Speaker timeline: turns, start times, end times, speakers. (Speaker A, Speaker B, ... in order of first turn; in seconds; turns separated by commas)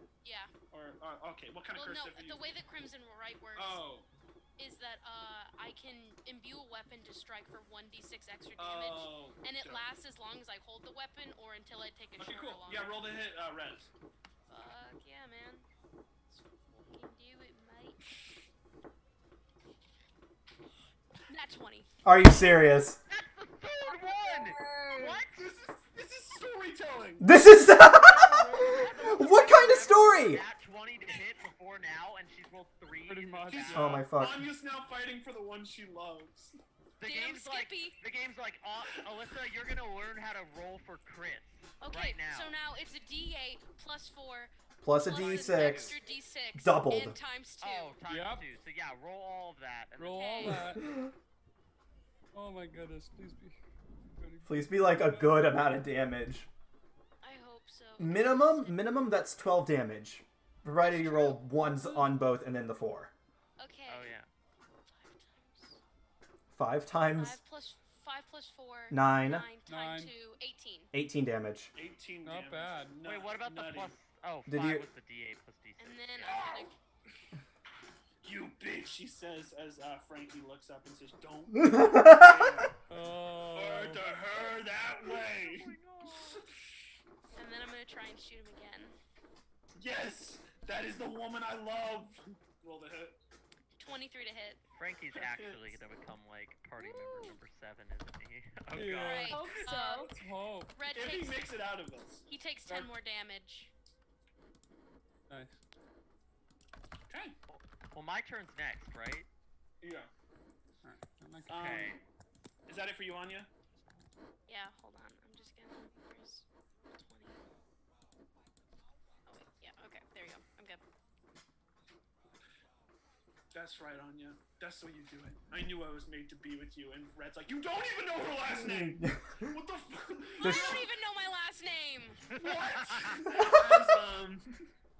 Speaker A: 0.2-0.5, Speaker B: 0.7-2.4, Speaker A: 1.7-3.8, Speaker B: 3.5-4.1, Speaker A: 4.6-13.0, Speaker B: 8.6-9.9, Speaker B: 12.2-13.9, Speaker A: 14.5-15.7, Speaker A: 16.3-18.0, Speaker A: 21.3-21.9, Speaker C: 22.1-23.0, Speaker D: 23.1-25.4, Speaker E: 24.5-25.2, Speaker B: 25.3-27.3, Speaker C: 27.2-30.4, Speaker B: 27.9-28.9, Speaker D: 28.6-34.1, Speaker E: 33.1-34.0, Speaker B: 33.5-36.6, Speaker C: 33.7-34.4, Speaker D: 37.0-42.5, Speaker A: 37.0-38.0, Speaker A: 41.8-48.0, Speaker C: 44.8-46.0, Speaker D: 45.1-46.0, Speaker C: 46.6-47.2, Speaker D: 47.6-50.5, Speaker E: 48.1-48.5, Speaker E: 50.0-50.9, Speaker A: 50.1-50.7, Speaker C: 50.7-51.1, Speaker E: 52.3-53.6, Speaker E: 54.1-55.4, Speaker C: 54.5-56.5, Speaker A: 57.2-58.8, Speaker C: 58.0-63.1, Speaker A: 60.8-62.0, Speaker A: 63.6-64.2, Speaker D: 63.9-64.3, Speaker A: 64.9-65.8, Speaker C: 66.5-67.4, Speaker A: 67.1-70.9, Speaker C: 68.9-69.5, Speaker E: 69.7-70.1, Speaker C: 70.9-71.7, Speaker B: 71.7-73.9, Speaker E: 72.2-73.0, Speaker D: 73.0-76.4, Speaker C: 74.5-74.9, Speaker A: 75.8-76.7, Speaker B: 76.2-76.7, Speaker B: 78.2-82.7, Speaker C: 81.5-82.7, Speaker E: 82.9-84.2, Speaker B: 83.5-86.4, Speaker D: 84.3-86.4, Speaker A: 87.3-89.0, Speaker B: 89.8-93.2, Speaker A: 93.8-94.6, Speaker D: 94.8-99.4, Speaker B: 95.1-95.8, Speaker E: 98.7-100.8, Speaker A: 99.0-100.1, Speaker B: 99.3-100.1, Speaker A: 100.8-101.4, Speaker B: 100.9-102.9, Speaker A: 102.3-103.7, Speaker E: 105.3-105.6, Speaker B: 107.1-107.4, Speaker D: 107.5-109.3, Speaker B: 109.8-110.1, Speaker E: 110.8-111.7, Speaker B: 111.5-112.0, Speaker D: 111.5-112.0, Speaker B: 112.7-113.5, Speaker A: 114.5-117.5, Speaker A: 119.3-120.8, Speaker B: 123.5-130.9, Speaker C: 128.5-129.6, Speaker A: 130.4-132.2, Speaker C: 130.4-130.8, Speaker D: 132.3-133.2, Speaker B: 132.3-134.6, Speaker C: 133.4-133.8